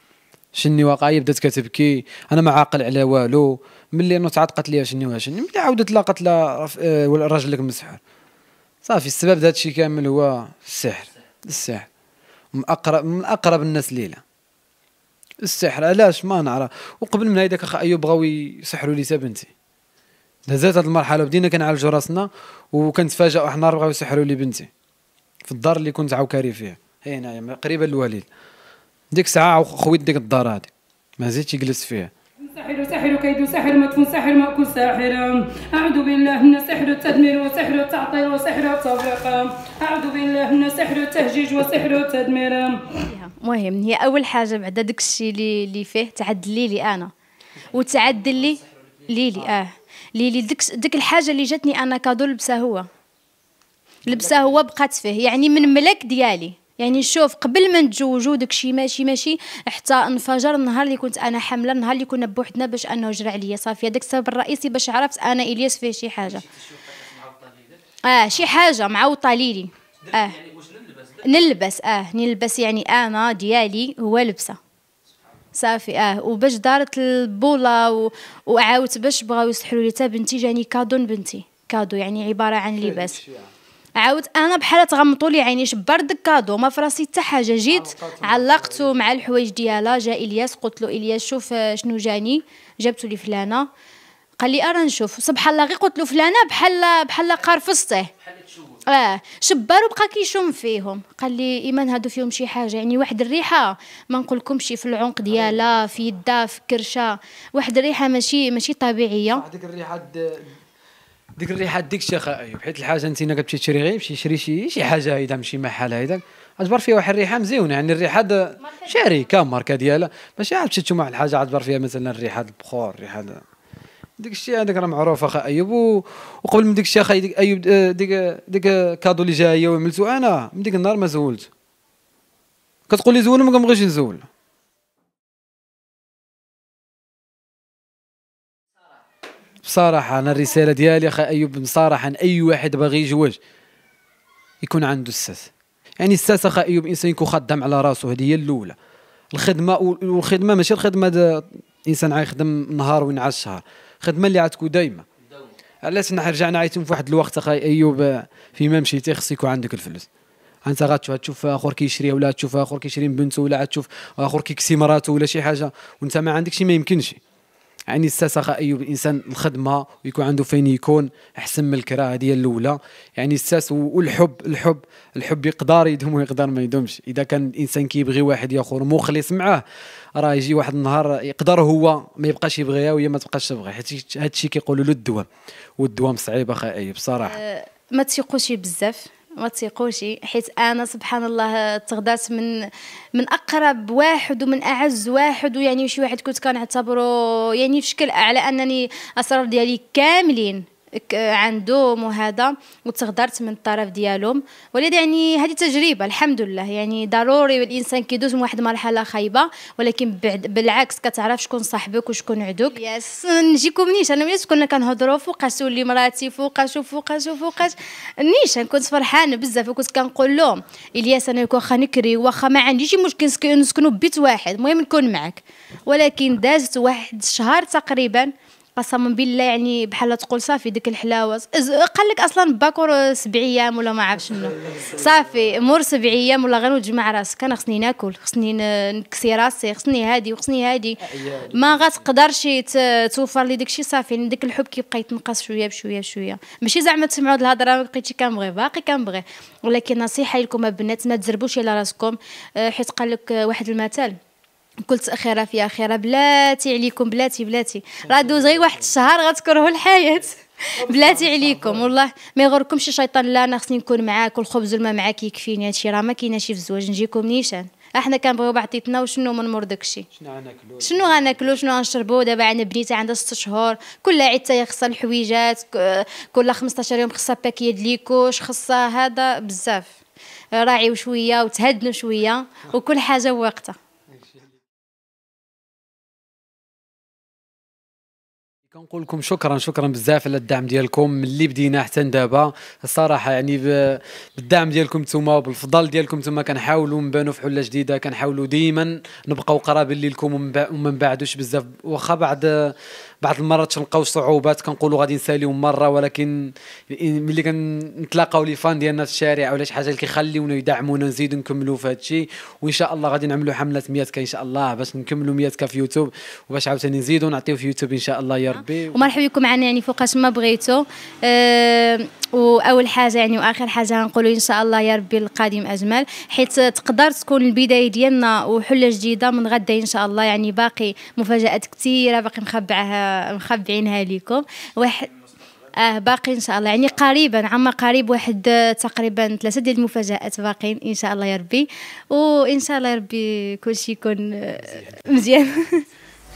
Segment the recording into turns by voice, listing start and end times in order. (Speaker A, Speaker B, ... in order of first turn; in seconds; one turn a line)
Speaker A: 0.6-8.0
Speaker A: 8.8-11.8
Speaker A: 12.5-14.2
Speaker A: 15.4-19.5
Speaker A: 20.5-24.7
Speaker A: 25.4-28.2
Speaker A: 29.1-32.1
Speaker B: 32.5-42.9
Speaker C: 42.9-47.1
Speaker C: 47.7-52.9
Speaker C: 54.0-66.5
Speaker A: 54.1-54.5
Speaker C: 68.0-74.6
Speaker C: 75.5-83.2
Speaker A: 82.8-83.5
Speaker C: 84.0-93.7
Speaker A: 87.7-88.9
Speaker C: 94.4-98.1
Speaker C: 98.7-109.4
Speaker A: 105.3-105.8
Speaker A: 109.3-110.5
Speaker A: 111.4-123.4
Speaker C: 118.6-119.3
Speaker A: 124.2-131.5
Speaker A: 132.9-134.2
Speaker A: 139.6-143.4
Speaker A: 144.6-145.5
Speaker A: 146.0-148.7
Speaker A: 149.3-155.1
Speaker A: 155.9-160.1
Speaker A: 160.7-167.2
Speaker A: 167.9-179.6
Speaker A: 180.2-185.3
Speaker A: 185.8-187.4
Speaker C: 187.2-192.5
Speaker C: 193.1-254.2
Speaker A: 241.2-241.7
Speaker C: 254.8-270.1
Speaker A: 258.1-258.5
Speaker A: 260.8-261.9
Speaker A: 270.1-271.6
Speaker C: 270.8-279.9
Speaker C: 280.6-283.8
Speaker A: 288.7-319.1
Speaker C: 318.5-335.1
Speaker C: 335.8-345.8
Speaker A: 344.7-345.1